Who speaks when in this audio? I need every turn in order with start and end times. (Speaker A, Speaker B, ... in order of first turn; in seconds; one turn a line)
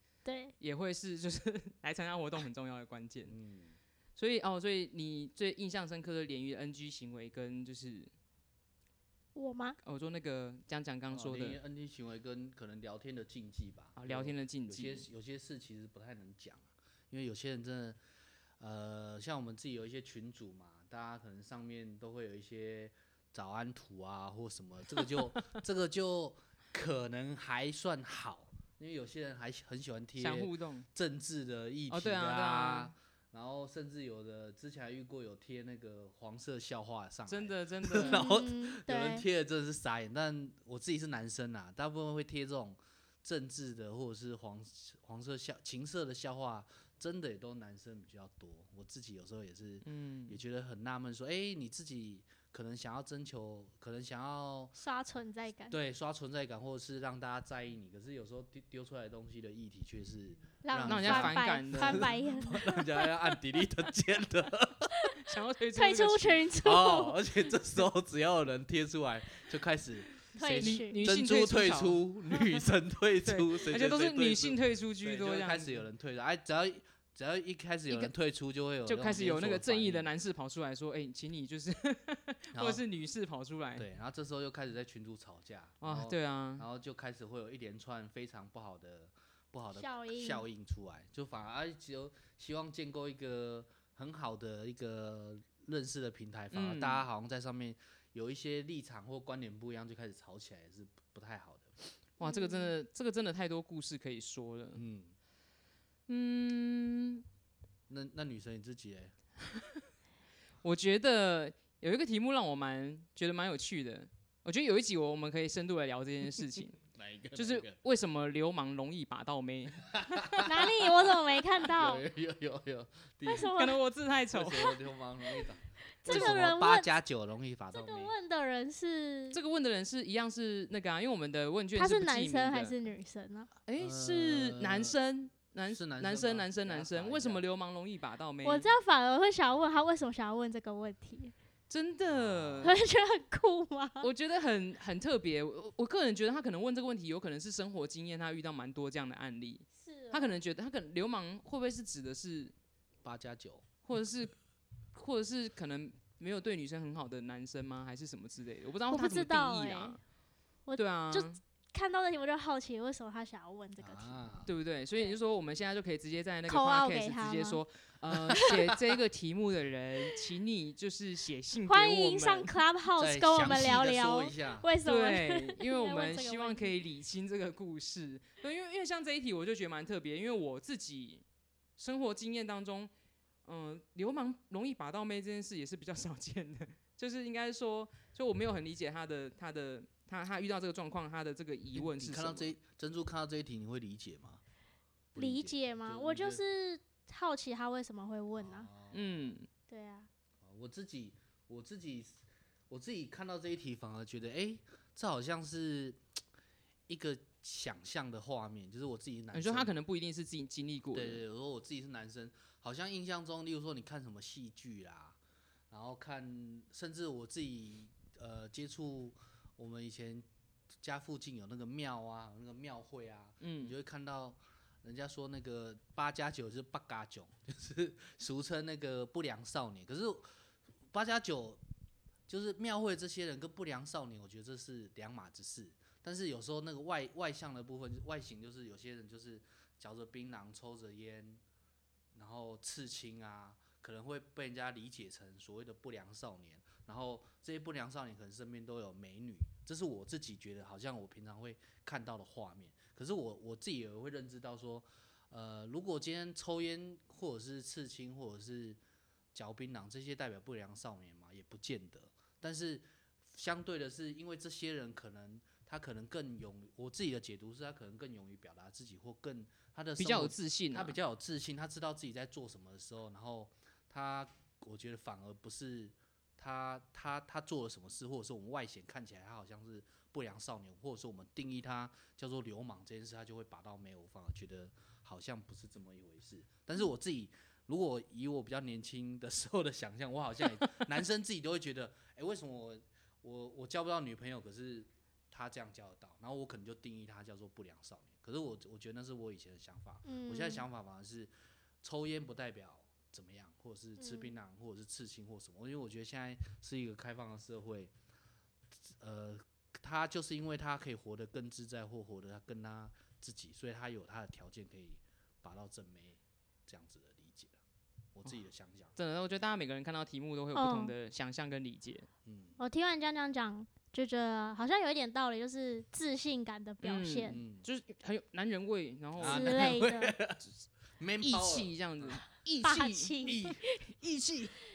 Speaker A: 0.2-0.5
Speaker B: 0.6-3.3
Speaker C: 3.3-3.8
Speaker B: 4.2-8.1
Speaker A: 9.3-9.8
Speaker B: 9.8-11.6
Speaker C: 11.1-18.0
Speaker B: 13.9-15.1
Speaker C: 18.6-54.7
Speaker B: 30.2-30.9
Speaker B: 31.9-32.9
Speaker B: 37.3-38.3
Speaker A: 38.0-39.2
Speaker B: 49.8-50.4
Speaker A: 54.8-55.8
Speaker C: 55.7-64.9
Speaker A: 60.6-62.7
Speaker B: 60.9-62.2
Speaker B: 65.2-66.4
Speaker A: 65.7-67.2
Speaker C: 66.6-80.1
Speaker A: 70.3-71.0
Speaker B: 70.6-72.0
Speaker B: 73.2-75.8
Speaker B: 78.8-83.8
Speaker C: 82.5-82.8
Speaker C: 83.8-101.9
Speaker B: 85.8-86.6
Speaker A: 89.7-90.4
Speaker B: 96.5-97.0
Speaker B: 102.2-104.8
Speaker A: 102.2-102.7
Speaker C: 104.8-105.1
Speaker B: 106.1-107.2
Speaker C: 107.9-109.1
Speaker B: 109.4-109.8
Speaker B: 110.6-116.8
Speaker C: 116.8-117.8
Speaker B: 117.3-120.9
Speaker C: 119.9-123.6
Speaker A: 120.4-122.0
Speaker A: 123.2-123.8
Speaker B: 123.5-124.7
Speaker C: 124.3-128.1
Speaker A: 126.0-126.9
Speaker B: 126.1-126.3
Speaker A: 127.7-129.4
Speaker B: 129.3-132.7
Speaker A: 131.7-133.5
Speaker B: 133.7-138.7
Speaker C: 133.8-134.9
Speaker C: 135.7-137.4
Speaker A: 138.4-141.3
Speaker B: 141.7-142.7
Speaker C: 142.1-142.8
Speaker A: 142.6-144.1
Speaker B: 144.0-152.5
Speaker A: 149.8-150.4
Speaker C: 153.0-153.7
Speaker B: 153.8-154.3
Speaker B: 154.9-160.0
Speaker A: 158.9-160.0
Speaker A: 160.7-164.2
Speaker B: 160.8-161.4
Speaker C: 163.8-164.5
Speaker B: 164.4-172.5
Speaker A: 166.5-167.6
Speaker A: 171.7-176.7
Speaker C: 173.0-174.7
Speaker B: 174.8-181.2
Speaker B: 181.8-182.9
Speaker B: 183.4-192.5
Speaker C: 191.7-194.4
Speaker C: 195.1-196.4
Speaker A: 195.2-198.7
Speaker C: 198.3-199.4
Speaker B: 198.9-199.5
Speaker A: 199.7-200.1
Speaker C: 200.4-206.0
Speaker C: 206.9-209.7
Speaker B: 209.3-211.2
Speaker C: 210.9-215.2
Speaker C: 215.7-220.2
Speaker C: 220.8-230.4
Speaker B: 223.4-223.7
Speaker C: 230.9-231.6
Speaker C: 232.3-241.4
Speaker C: 242.1-258.8
Speaker C: 259.3-301.3
Speaker B: 270.0-271.0
Speaker A: 300.1-300.6
Speaker C: 301.8-307.9
Speaker A: 304.0-304.3
Speaker C: 308.9-317.6
Speaker C: 318.1-319.0
Speaker B: 318.9-322.1
Speaker A: 320.5-320.9
Speaker C: 322.2-322.6
Speaker A: 322.6-327.4
Speaker B: 326.8-329.9
Speaker C: 327.3-327.6
Speaker C: 329.2-330.4
Speaker A: 329.2-330.1
Speaker C: 331.0-332.2
Speaker B: 331.2-333.2
Speaker A: 332.6-333.9
Speaker C: 333.2-334.5